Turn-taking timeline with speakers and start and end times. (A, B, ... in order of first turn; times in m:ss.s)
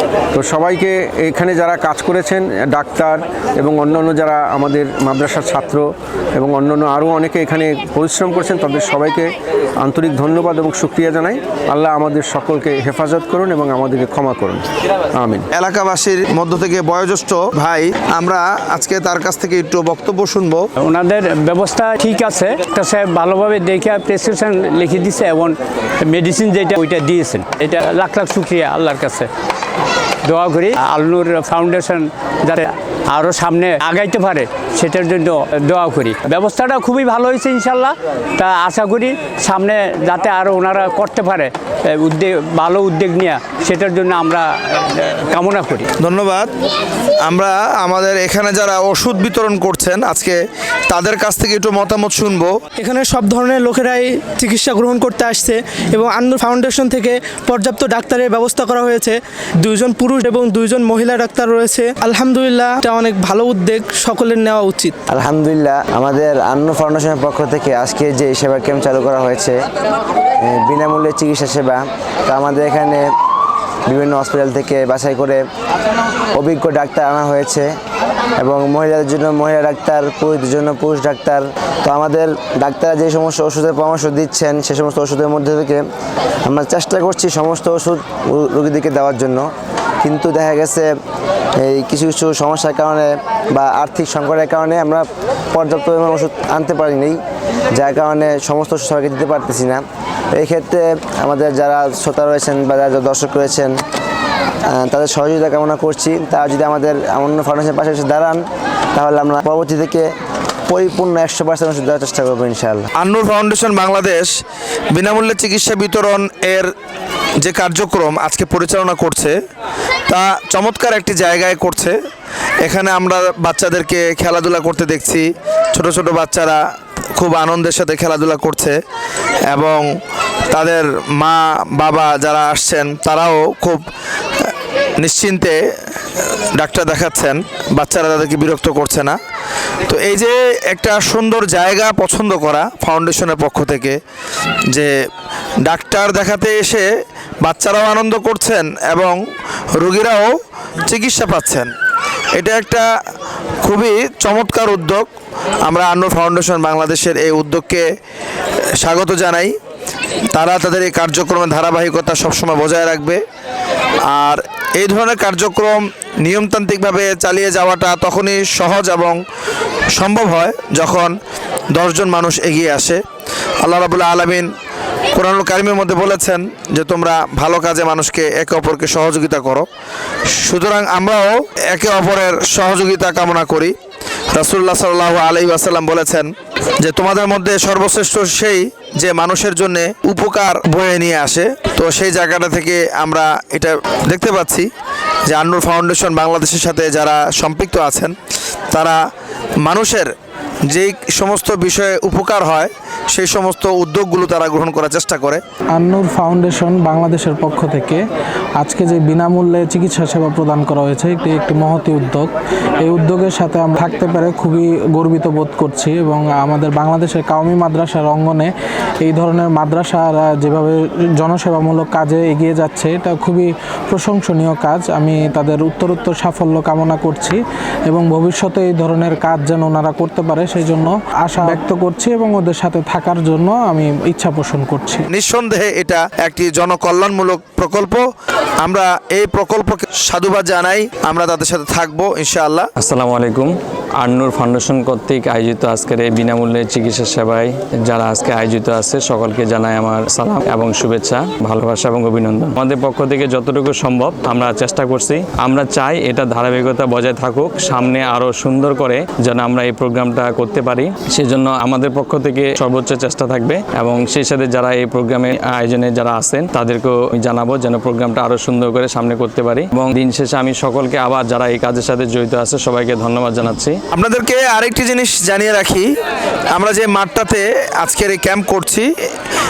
0:00.3-0:15.5 A
0:15.5-0:20.6 B
0:20.8-0:29.3 C
0:30.2-0:45.9 C
0:46.0-0:46.5 B
0:47.2-0:52.6 B
0:52.8-1:05.0 D
1:05.1-1:09.6 E
1:10.4-1:13.0 E
1:13.9-1:15.4 E
1:16.4-1:17.7 E
1:18.4-1:25.8 E
1:26.4-1:29.5 E
1:30.0-1:30.9 E
1:31.6-1:37.2 E
1:37.7-1:43.8 E
1:44.7-1:48.4 E
1:48.9-1:50.1 E
1:50.7-1:52.9 E
1:53.0-1:54.3 B
1:54.9-1:56.7 B
1:57.4-1:59.4 B
2:00.1-2:01.9 B
2:02.6-2:06.6 B
2:07.2-2:08.8 B
2:09.5-2:09.8 B
2:10.5-2:13.8 B
2:14.4-2:15.6 B
2:16.2-2:19.2 B
2:19.9-2:24.0 B
2:25.6-2:26.9 B
2:27.4-2:29.2 B
2:29.7-2:30.3 B
2:30.9-2:31.7 B
2:32.4-2:32.9 B
2:33.6-2:35.1 B
2:35.7-2:37.8 B
2:38.8-2:39.5 B
2:40.3-2:43.2 B
2:44.1-2:49.2 B
2:49.9-2:51.1 B
2:51.7-2:53.0 B
2:53.6-2:54.5 B
2:55.1-2:59.7 B
3:00.4-3:03.7 B
3:04.3-3:14.7 B
3:15.3-3:18.1 B
3:18.7-3:19.0 B
3:19.6-3:20.1 B
3:20.7-3:25.4 B
3:25.7-3:28.0 F
3:28.6-3:32.3 F
3:32.8-3:38.5 F
3:39.0-3:55.0 F
3:55.1-3:58.0 B
3:58.6-4:02.7 B
4:02.8-4:33.8 G
4:33.9-4:35.9 B
4:36.5-4:38.9 B